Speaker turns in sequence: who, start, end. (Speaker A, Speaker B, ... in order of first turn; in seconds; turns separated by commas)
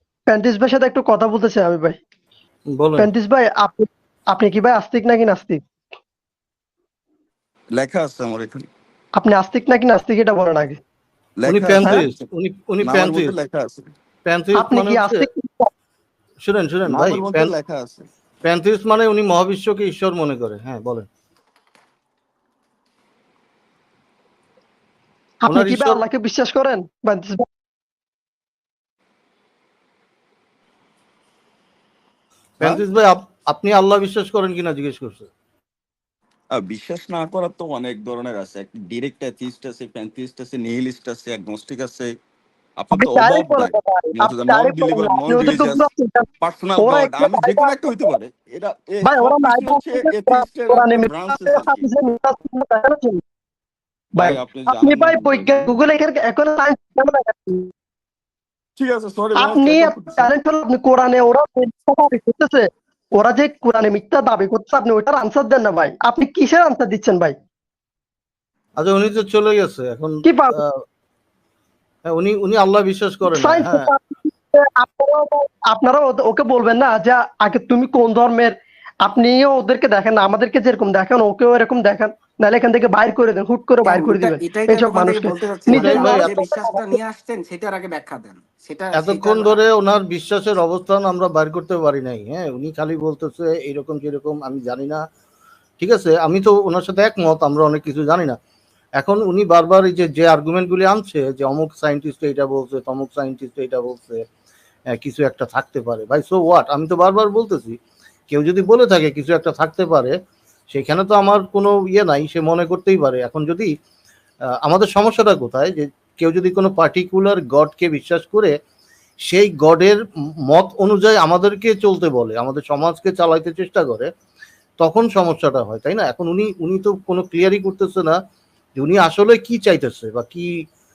Speaker A: 0.3-2.0, Speaker B: 2.7-3.1, Speaker A: 3.0-5.6, Speaker C: 7.7-8.7, Speaker A: 9.2-10.8, Speaker C: 11.4-12.2, Speaker B: 11.5-13.3, Speaker C: 12.8-13.9, Speaker B: 14.2-15.2, Speaker A: 14.5-15.7, Speaker B: 16.4-17.5, Speaker C: 16.9-18.1, Speaker B: 18.4-21.1, Speaker A: 25.4-27.4, Speaker B: 25.5-26.0, Speaker B: 32.6-35.3, Speaker C: 36.5-42.1, Speaker C: 42.8-45.9, Speaker A: 42.9-47.8, Speaker C: 46.4-51.9, Speaker A: 49.0-53.2, Speaker A: 54.1-57.7, Speaker C: 54.2-55.7, Speaker C: 58.8-60.3, Speaker A: 59.4-67.3, Speaker B: 68.8-70.8, Speaker A: 70.2-70.6, Speaker B: 72.1-73.9, Speaker A: 73.3-78.5, Speaker A: 79.0-87.0, Speaker D: 83.8-89.6, Speaker B: 85.7-86.3, Speaker B: 89.0-95.0, Speaker B: 95.8-98.4, Speaker B: 99.0-104.2, Speaker B: 105.0-107.8, Speaker B: 108.3-110.2, Speaker B: 110.7-113.7, Speaker B: 114.6-118.5, Speaker B: 119.2-124.1, Speaker B: 124.8-128.2, Speaker B: 128.8-130.5